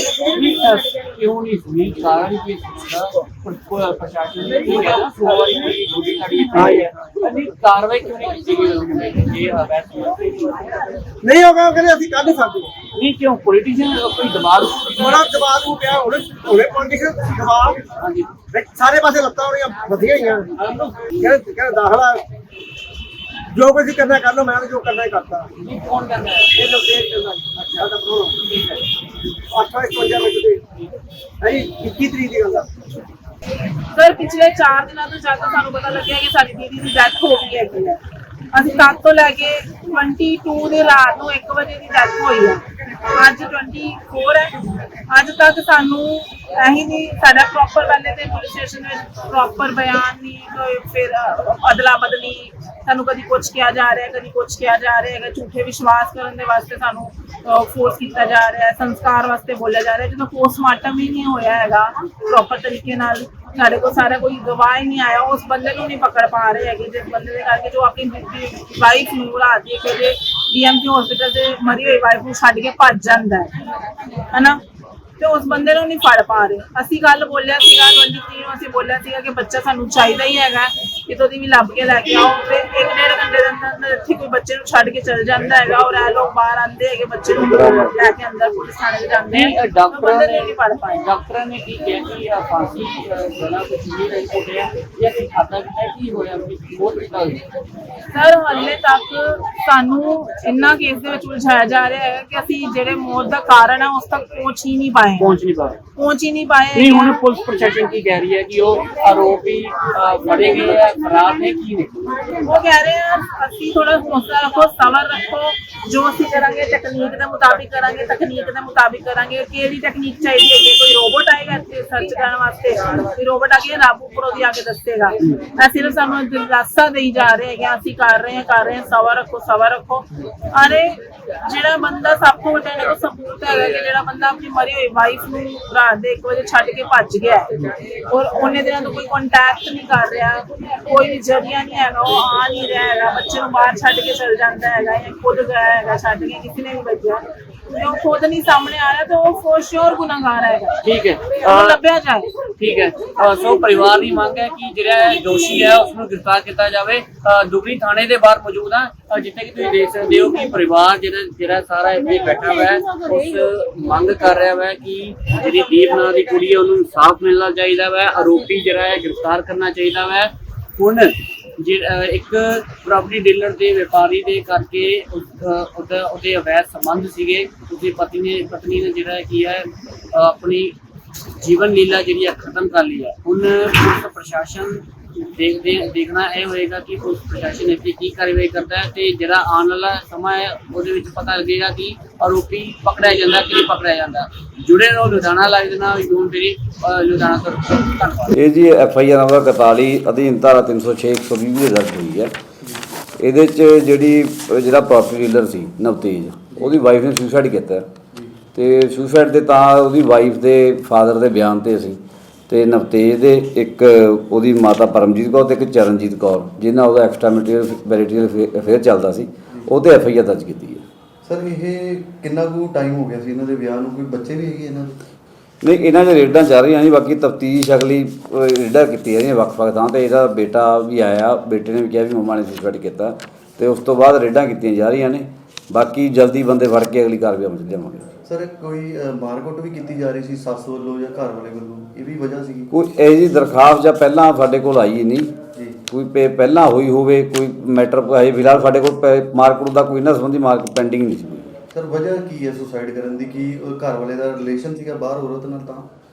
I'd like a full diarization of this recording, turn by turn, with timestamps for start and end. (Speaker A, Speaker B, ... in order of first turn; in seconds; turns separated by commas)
Speaker A: 0.2-10.8, Speaker B: 6.5-6.8, Speaker B: 11.2-12.7, Speaker A: 12.9-15.3, Speaker B: 15.0-17.8, Speaker A: 17.9-18.3, Speaker B: 18.5-20.5, Speaker A: 20.6-21.1, Speaker B: 21.2-22.2, Speaker B: 23.5-25.5, Speaker A: 25.6-26.6, Speaker B: 26.5-28.4, Speaker A: 28.4-28.8, Speaker B: 29.5-30.6, Speaker B: 31.4-32.7, Speaker C: 33.9-38.0, Speaker C: 38.5-73.5, Speaker C: 74.3-74.6, Speaker C: 75.2-91.0, Speaker A: 89.3-97.4, Speaker C: 98.1-105.2, Speaker A: 105.2-105.8, Speaker C: 106.0-107.2, Speaker A: 106.7-111.9, Speaker C: 112.4-137.5, Speaker C: 138.1-150.8, Speaker A: 150.8-151.8, Speaker C: 151.4-152.3, Speaker A: 152.6-180.8, Speaker A: 181.4-198.3, Speaker D: 198.3-202.3, Speaker D: 203.2-207.8, Speaker D: 208.5-212.0, Speaker D: 212.5-220.8, Speaker E: 221.2-225.0, Speaker D: 225.6-238.1, Speaker E: 238.2-242.7, Speaker D: 242.7-245.3, Speaker E: 245.5-245.8, Speaker D: 245.9-251.5, Speaker E: 251.7-255.9